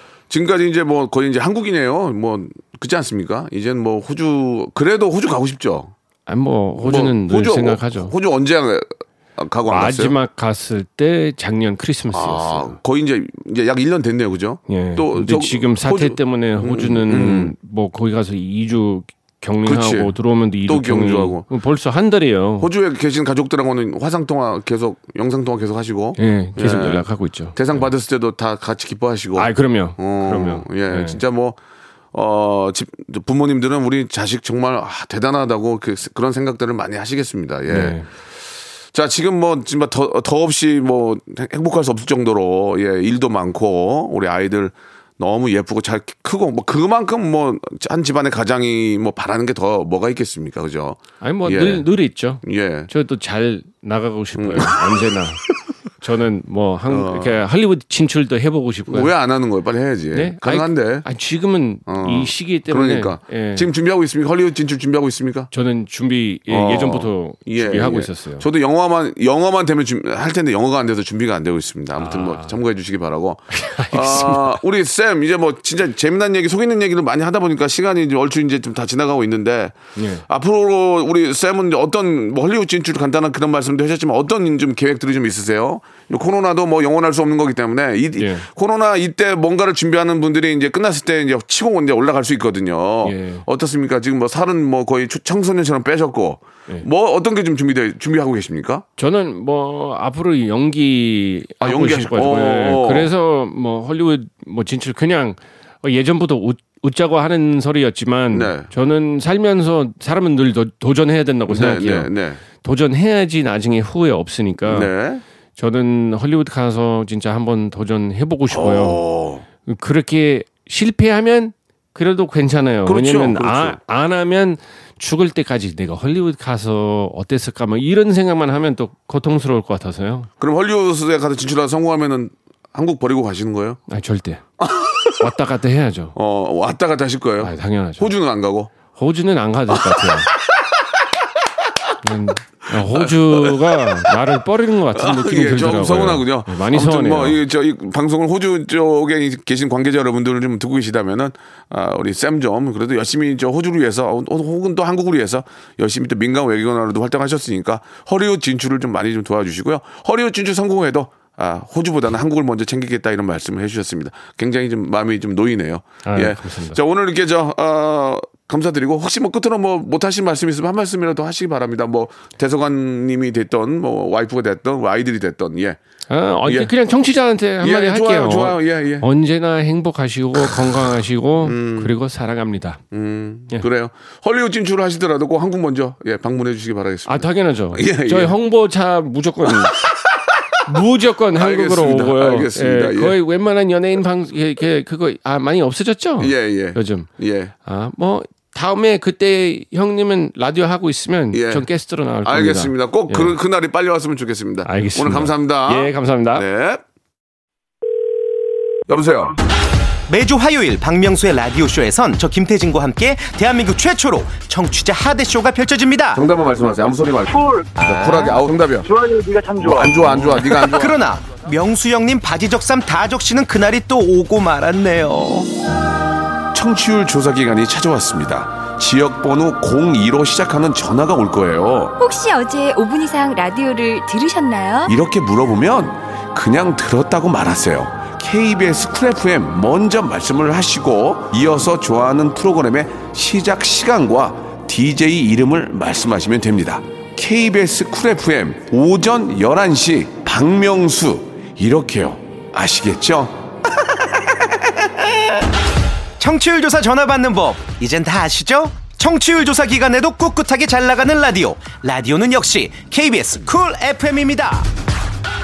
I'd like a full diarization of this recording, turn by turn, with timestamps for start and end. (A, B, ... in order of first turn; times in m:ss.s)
0:00.3-0:05.9 A
0:06.3-0:08.1 B
0:06.8-0:10.1 A
0:09.7-0:12.8 B
0:12.1-0:17.5 A
0:14.7-0:22.7 B
0:19.7-0:20.1 A
0:20.7-0:21.5 A
0:22.6-0:31.6 A
0:26.2-0:27.9 B
0:29.4-0:31.2 B
0:32.1-0:38.0 A
0:37.7-0:38.1 B
0:38.9-0:51.9 A
0:51.2-0:55.4 B
0:52.4-0:52.9 A
0:54.4-0:55.0 A
0:56.0-0:59.1 B
0:56.9-0:57.4 A
0:58.9-1:01.1 A
1:00.1-1:03.7 B
1:01.9-1:05.5 A
1:05.5-1:08.4 B
1:06.5-1:19.8 A
1:12.0-1:12.6 B
1:13.5-1:14.6 B
1:20.0-1:20.2 B
1:20.3-1:38.8 A
1:28.2-1:28.5 B
1:33.0-1:33.4 B
1:39.0-1:54.9 B
1:41.6-1:43.1 A
1:48.3-1:48.7 A
1:51.5-1:52.4 A
1:54.7-1:55.2 A
1:55.6-1:59.0 B
1:58.5-1:59.4 A
1:59.7-2:10.3 B
2:02.9-2:03.8 A
2:10.4-2:13.8 A
2:13.9-2:14.4 B
2:14.6-2:15.3 A
2:15.2-2:16.1 B
2:16.2-2:18.7 A
2:17.4-2:18.1 B
2:19.0-2:20.3 B
2:22.0-2:27.4 B
2:22.9-2:23.8 A
2:24.9-2:55.8 A
2:46.0-2:46.8 B
2:56.1-3:02.8 B
2:57.6-2:59.1 A
3:01.4-3:01.9 A
3:02.9-3:08.4 A
3:07.1-3:09.8 B
3:09.7-3:10.3 A
3:10.7-3:17.1 B
3:11.4-3:13.2 A
3:16.2-3:17.5 A
3:17.6-3:23.4 B
3:21.3-3:21.7 A
3:22.2-3:26.8 A
3:24.6-3:26.4 B
3:28.9-3:29.4 A
3:30.1-3:36.2 C
3:36.1-3:38.9 A
3:37.3-3:37.8 D
3:38.8-3:40.3 D
3:39.6-3:41.0 A
3:40.5-3:45.5 C
3:46.5-3:52.0 A
3:52.0-3:54.9 E
3:54.9-4:13.4 A
4:16.2-4:24.7 C